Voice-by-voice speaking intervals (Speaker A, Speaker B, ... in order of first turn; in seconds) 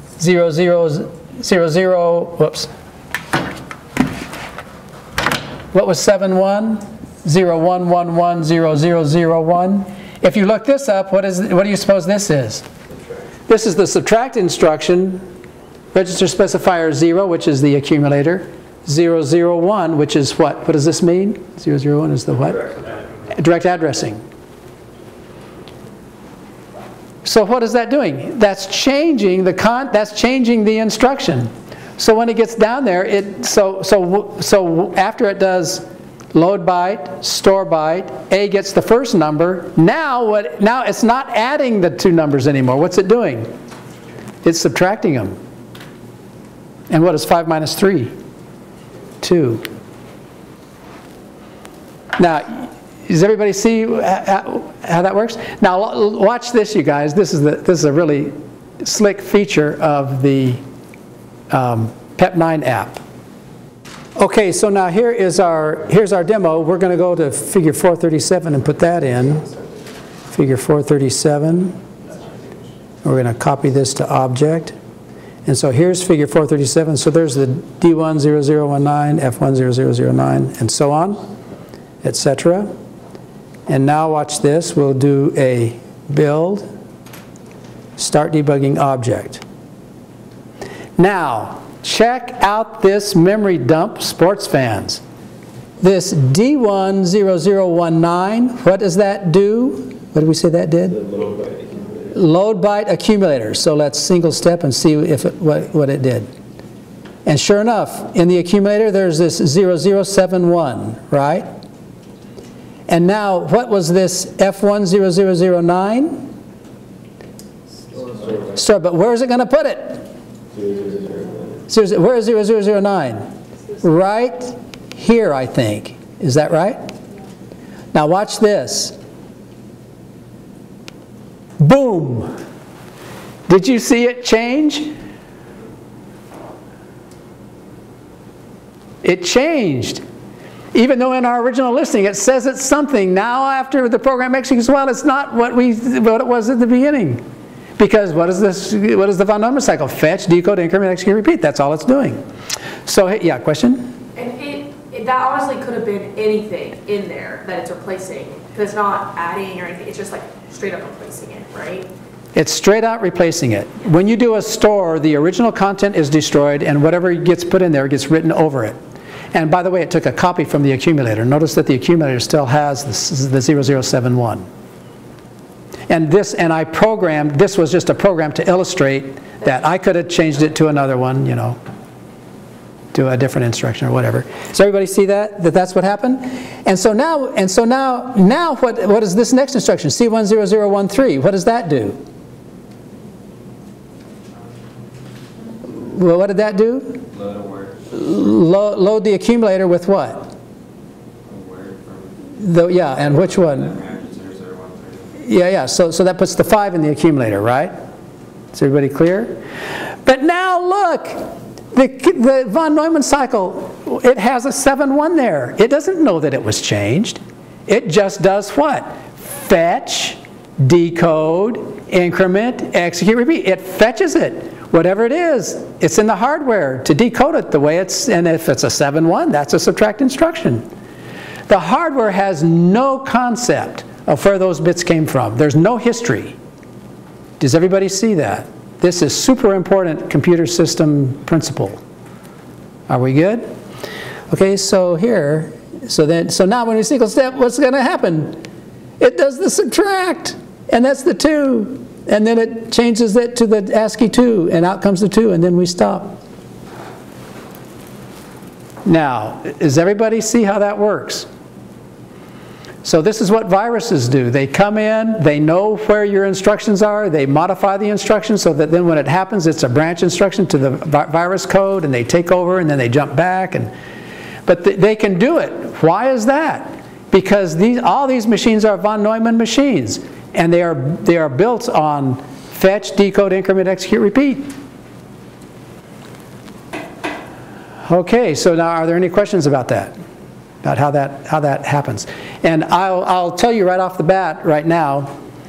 Speaker A: 0.2-2.7, 5.7-12.6, 13.5-15.2, 15.9-22.7, 23.3-24.2, 27.2-43.5, 44.4-45.4, 46.9-48.1, 49.2-49.6, 52.1-60.6, 61.5-63.0, 64.2-69.5, 70.3-71.8, 73.0-74.8, 75.5-81.2, 82.0-82.7, 83.7-86.7, 88.0-89.4, 91.0-95.0, 95.8-101.0, 102.1-106.3, 107.2-111.5, 112.9-116.3, 118.5-120.1, 121.7-123.3, 123.8-126.8, 127.9-128.9, 131.6-132.3, 133.5-134.9, 139.0-140.0, 140.7-147.2, 147.8-152.2, 152.8-153.9, 162.3-168.8, 169.3-174.5, 175.9-181.6, 182.9-192.0, 195.7-197.1, 197.9-200.2, 202.3-203.8, 205.2-207.7, 208.5-209.4, 210.0-230.7, 231.5-236.3, 237.4-241.8, 242.9-243.5, 244.3-248.4, 249.0-256.2, 258.8-261.3, 262.8-273.7, 274.4-284.5, 287.8-289.9, 290.6-295.1
Speaker B: 100.9-102.1, 118.0-118.5, 120.5-121.6, 197.1-197.7, 201.3-202.1, 203.8-205.1
Speaker C: 154.2-161.9